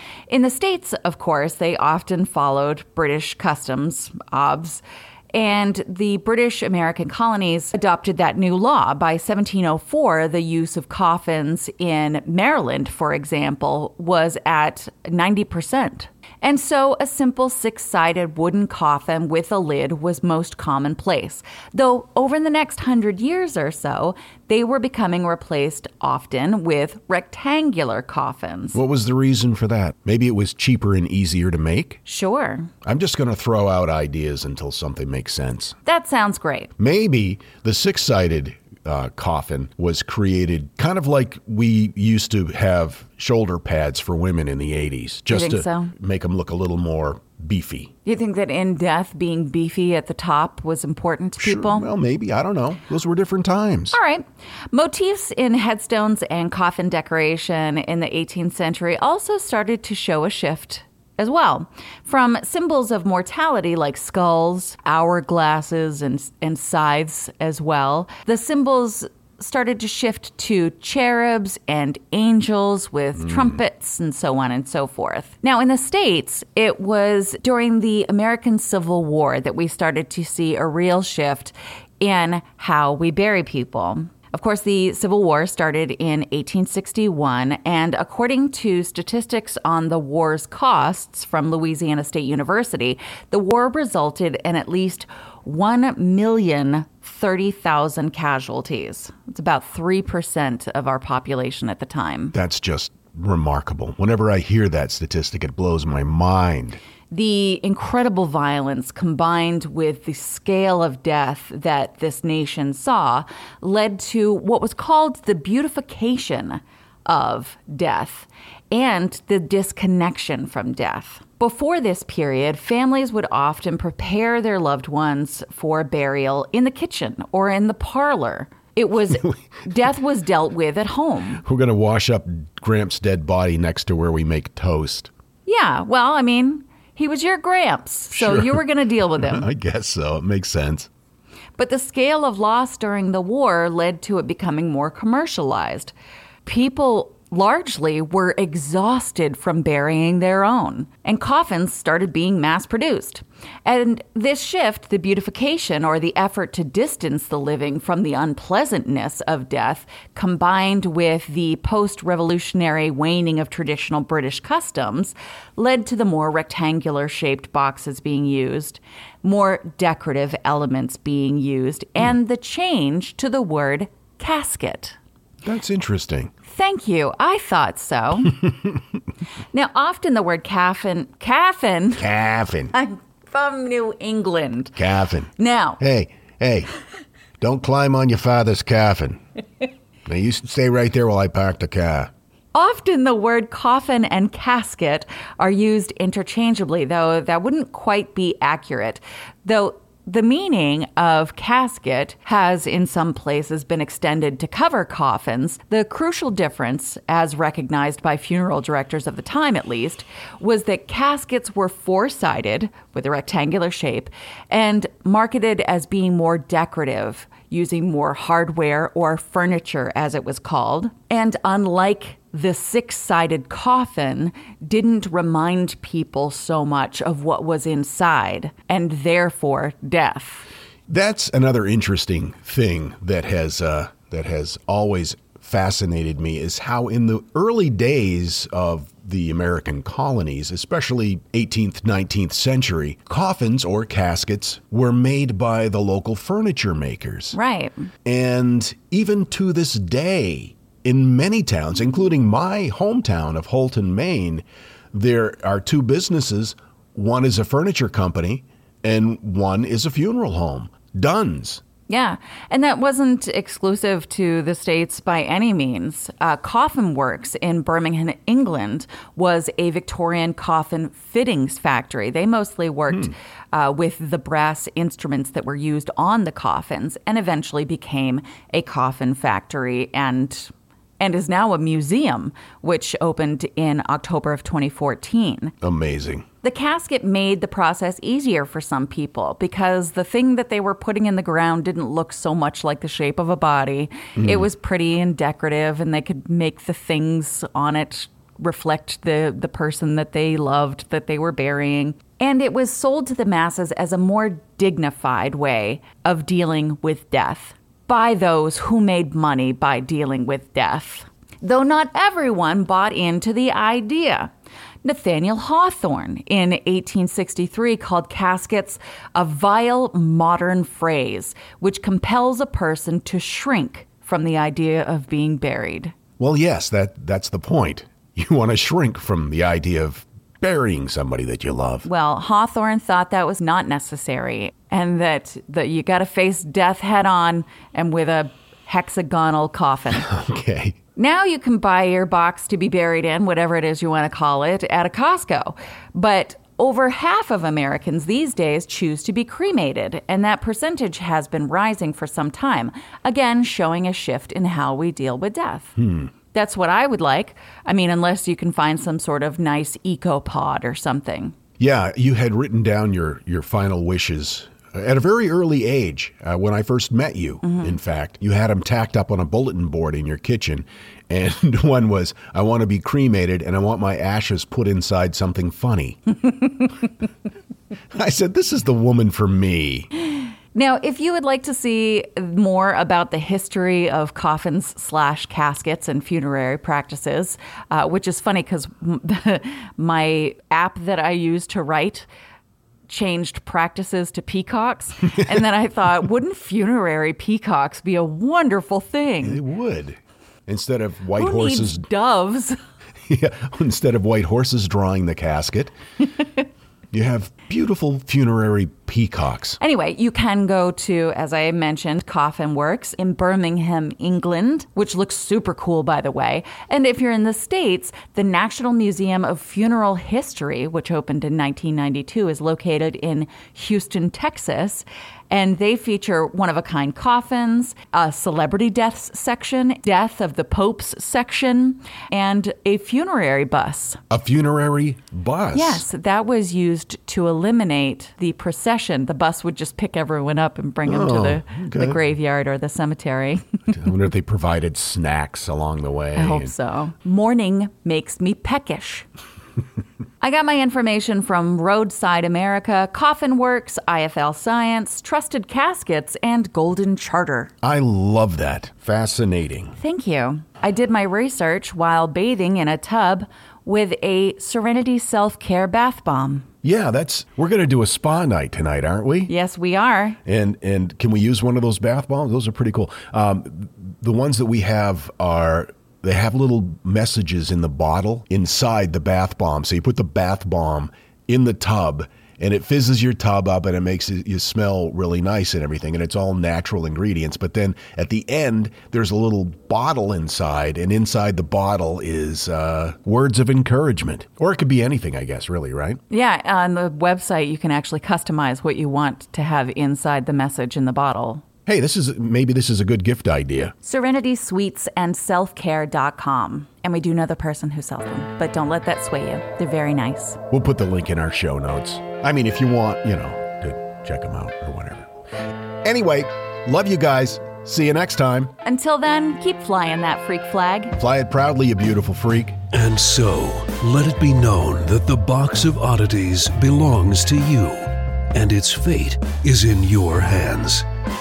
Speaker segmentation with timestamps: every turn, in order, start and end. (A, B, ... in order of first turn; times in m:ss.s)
0:00.3-0:04.8 A
0:05.3-0:28.8 A
0:28.7-0:32.0 B
0:32.0-0:32.7 A
0:32.8-0:35.7 B
0:35.8-0:36.7 A
0:36.8-0:47.9 B
0:45.3-0:45.9 A
0:48.0-0:51.9 A
0:51.4-0:54.0 B
0:53.9-1:42.3 A
1:42.3-1:46.8 B
1:47.1-2:11.4 A
2:11.4-2:15.1 B
2:15.4-2:19.5 A
2:18.1-2:20.9 B
2:21.6-2:25.9 A
2:26.4-2:55.0 A
2:55.4-2:56.3 B
2:56.5-2:58.4 A
2:59.5-3:02.1 A
3:02.0-3:02.7 B
3:02.7-3:04.8 A
3:04.8-3:06.7 B
3:05.4-3:05.8 A
3:07.4-3:09.2 B
3:10.0-3:12.1 B
3:12.5-3:50.5 A
3:50.9-4:07.4 B
4:07.3-4:07.9 A
4:08.0-4:21.6 B
4:21.9-4:45.5 A
4:45.6-4:46.2 B
4:46.4-5:14.3 A
4:54.2-4:54.5 B
5:14.8-5:25.9 A
5:26.2-5:31.9 B
5:31.8-5:40.1 A
5:39.9-5:40.8 B
5:41.0-5:55.7 A
5:55.8-5:56.1 B
5:56.3-6:01.3 A
6:01.6-6:16.0 B
6:07.4-6:07.7 A
6:17.9-6:19.9 B
6:20.1-6:32.1 A
6:32.9-6:39.4 A
6:39.2-6:41.8 B
6:41.1-6:42.6 A
6:43.1-6:45.7 B
6:46.9-6:49.6 B
6:49.6-7:14.0 A
7:14.1-7:15.8 B
7:15.5-7:23.7 A
7:20.8-7:22.0 B
7:23.7-7:26.5 B
7:26.1-7:29.0 A
7:30.2-7:37.5 A
7:37.6-7:39.8 B
7:39.8-7:46.5 A
7:46.6-7:49.3 B
7:49.3-7:50.2 A
7:50.2-8:16.0 B
8:16.1-8:21.4 A
8:21.6-8:23.7 B
8:23.8-8:30.4 A
8:30.5-8:35.1 B
8:35.8-8:38.5 B
8:38.6-8:41.0 A
8:41.0-8:42.6 B
8:42.7-8:50.8 C